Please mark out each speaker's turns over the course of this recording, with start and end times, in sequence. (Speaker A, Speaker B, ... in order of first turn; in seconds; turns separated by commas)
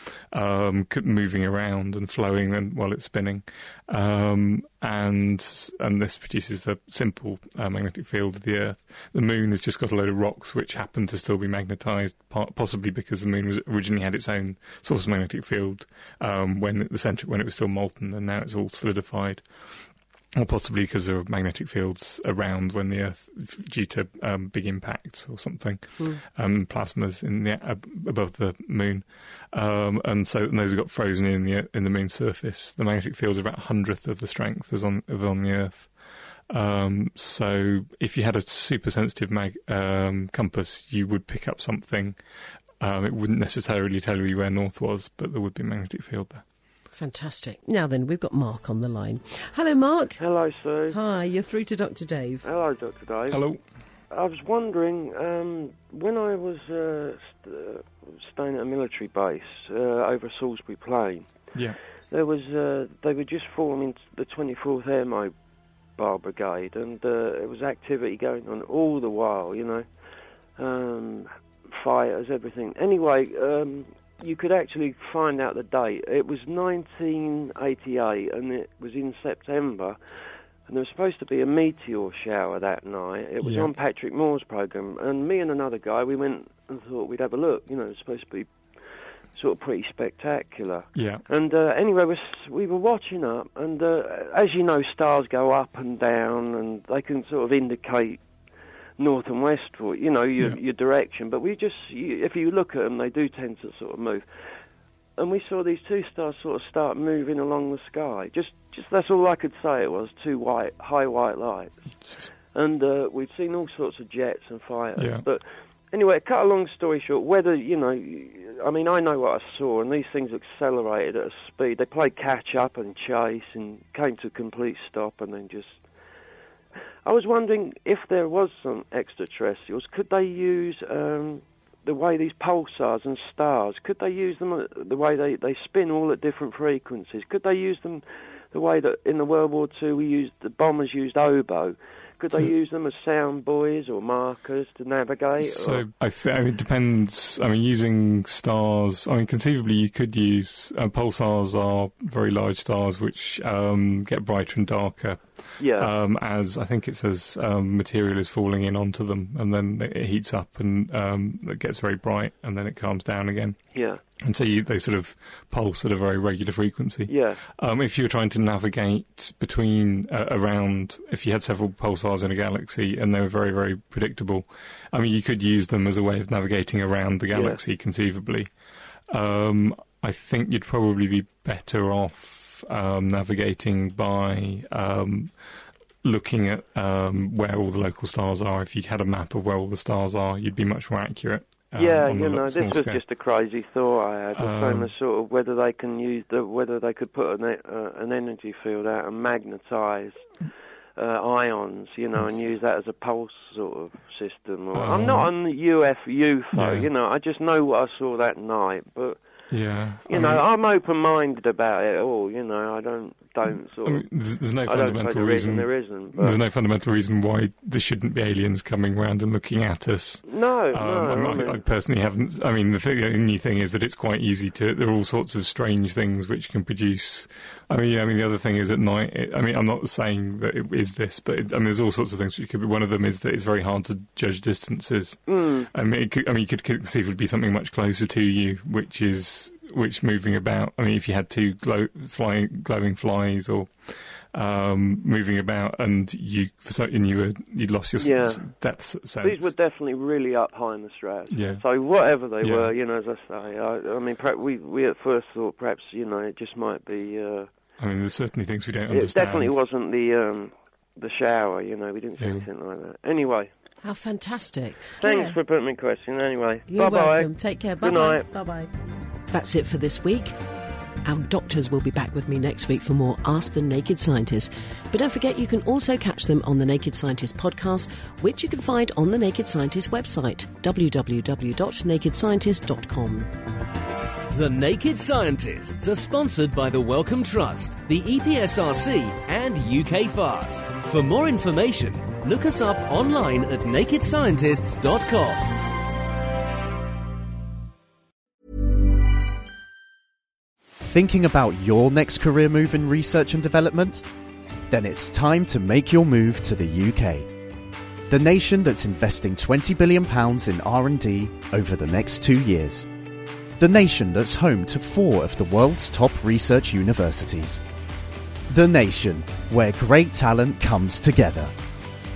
Speaker A: 0.3-19.4, Speaker A: 20.4-35.9, Speaker A: 36.5-42.2, Speaker A: 42.8-46.4, Speaker B: 46.9-50.2, Speaker C: 50.2-51.0, Speaker B: 50.9-52.4, Speaker C: 52.4-53.4, Speaker A: 53.3-53.6, Speaker C: 54.1-61.3, Speaker C: 62.1-65.3, Speaker C: 66.0-69.8, Speaker C: 70.6-80.0, Speaker C: 80.7-88.5, Speaker A: 83.4-83.7, Speaker C: 89.3-98.2, Speaker A: 90.9-91.2, Speaker C: 99.0-104.2, Speaker C: 105.2-111.7, Speaker C: 112.5-125.8, Speaker A: 115.0-115.2, Speaker C: 127.0-145.8, Speaker A: 145.4-163.6, Speaker C: 155.6-155.9, Speaker C: 163.7-164.0, Speaker A: 164.2-178.5, Speaker C: 167.1-167.4, Speaker C: 177.3-177.6, Speaker A: 179.1-185.3, Speaker A: 186.0-193.0, Speaker C: 191.7-200.2, Speaker A: 194.3-194.9, Speaker C: 201.0-209.2, Speaker A: 204.7-205.3, Speaker A: 206.5-206.9, Speaker A: 209.5-210.4, Speaker C: 210.1-214.1, Speaker A: 213.8-243.7, Speaker C: 214.6-216.4, Speaker C: 220.2-221.6, Speaker C: 235.3-235.7, Speaker A: 244.3-249.5, Speaker C: 248.0-248.5, Speaker C: 249.2-257.5, Speaker A: 251.3-251.6, Speaker A: 252.4-252.7, Speaker A: 257.8-259.6, Speaker C: 258.9-263.5, Speaker A: 262.2-262.5, Speaker B: 263.8-265.4, Speaker C: 265.0-268.2, Speaker B: 266.7-268.7, Speaker B: 269.3-270.4, Speaker B: 271.0-283.3, Speaker D: 284.3-295.4, Speaker E: 300.8-304.0, Speaker E: 304.7-307.3, Speaker E: 308.1-312.9, Speaker E: 313.6-317.6, Speaker E: 318.5-321.5